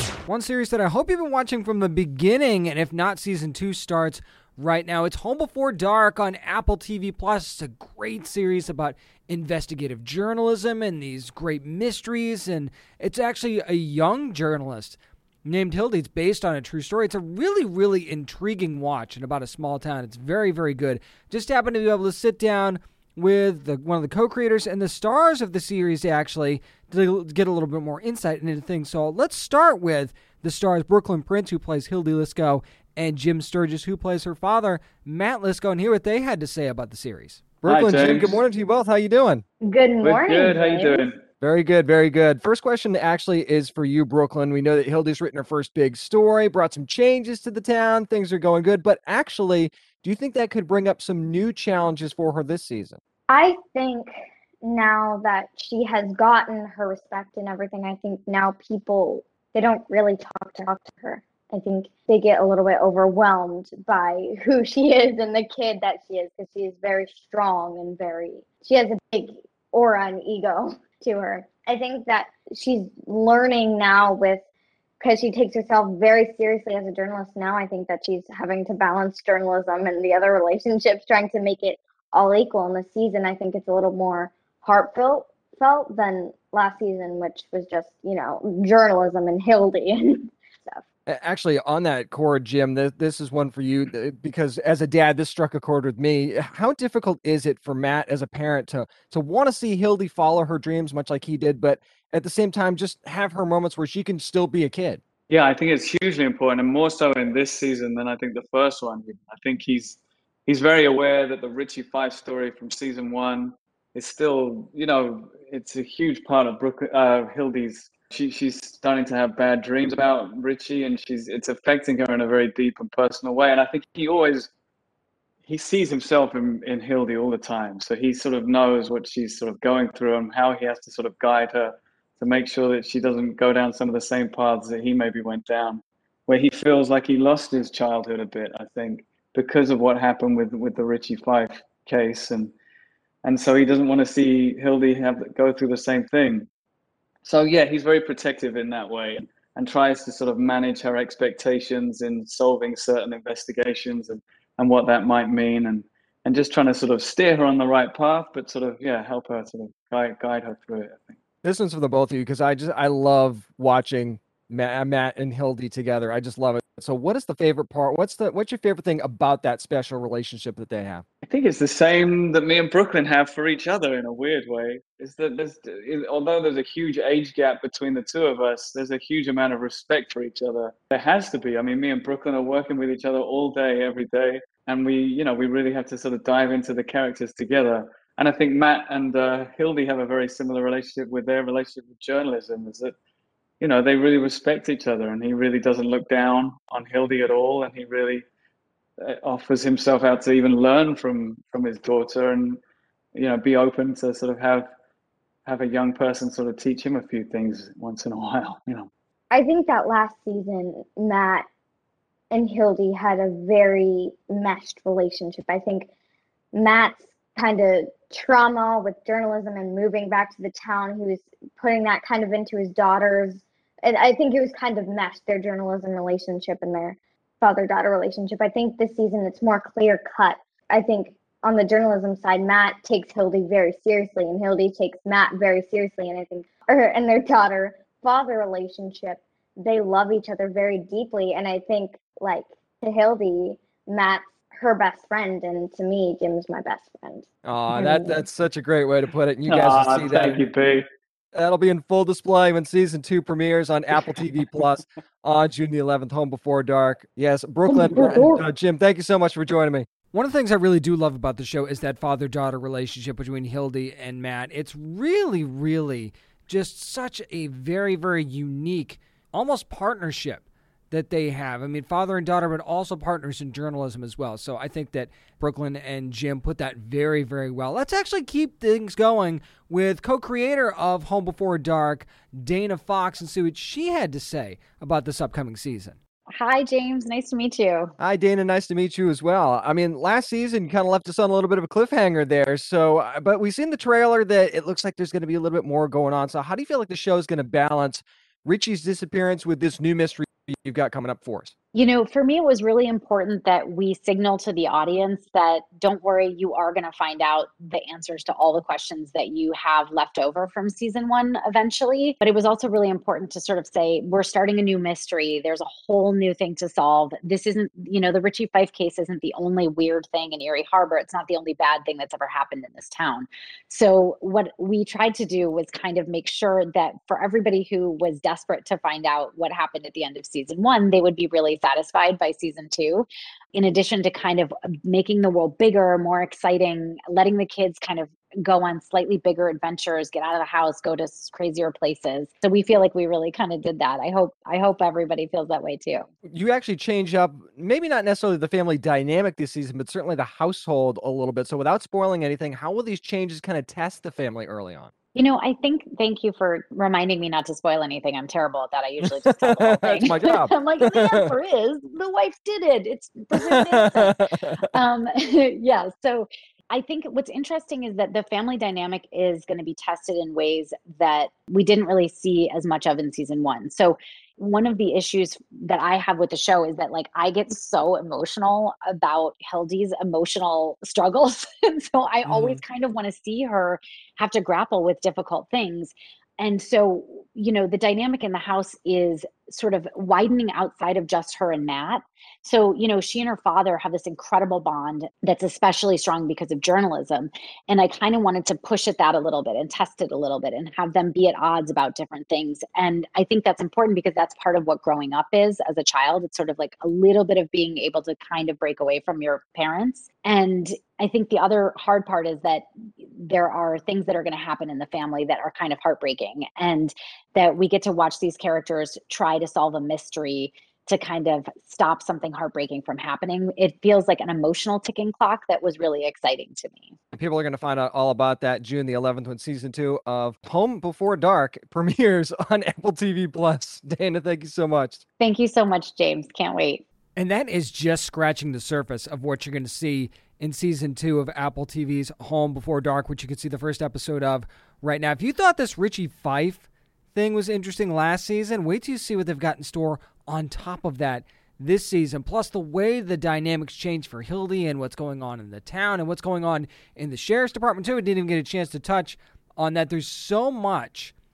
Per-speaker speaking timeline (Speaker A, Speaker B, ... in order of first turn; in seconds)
Speaker A: 0.3-39.4, 41.4-53.0, 91.0-105.0, 161.4-171.0, 247.4-250.4, 251.3-286.0, 288.0-301.5, 346.3-354.9, 359.2-361.3, 363.3-364.6, 427.1-435.0, 437.2-461.1
Speaker B: 37.7-38.4, 40.0-41.2, 105.3-124.5, 125.5-142.5, 143.2-146.5, 147.2-161.2, 171.2-192.9, 193.6-198.2, 199.0-202.6, 203.1-204.7, 205.4-208.9, 249.5-250.8
Speaker C: 39.6-41.0, 53.3-74.4, 75.0-90.8, 209.3-211.4, 212.3-215.9, 216.5-247.3, 257.7-258.3
Speaker D: 286.3-287.9, 301.7-346.1, 355.1-364.2, 364.7-426.9, 435.2-436.8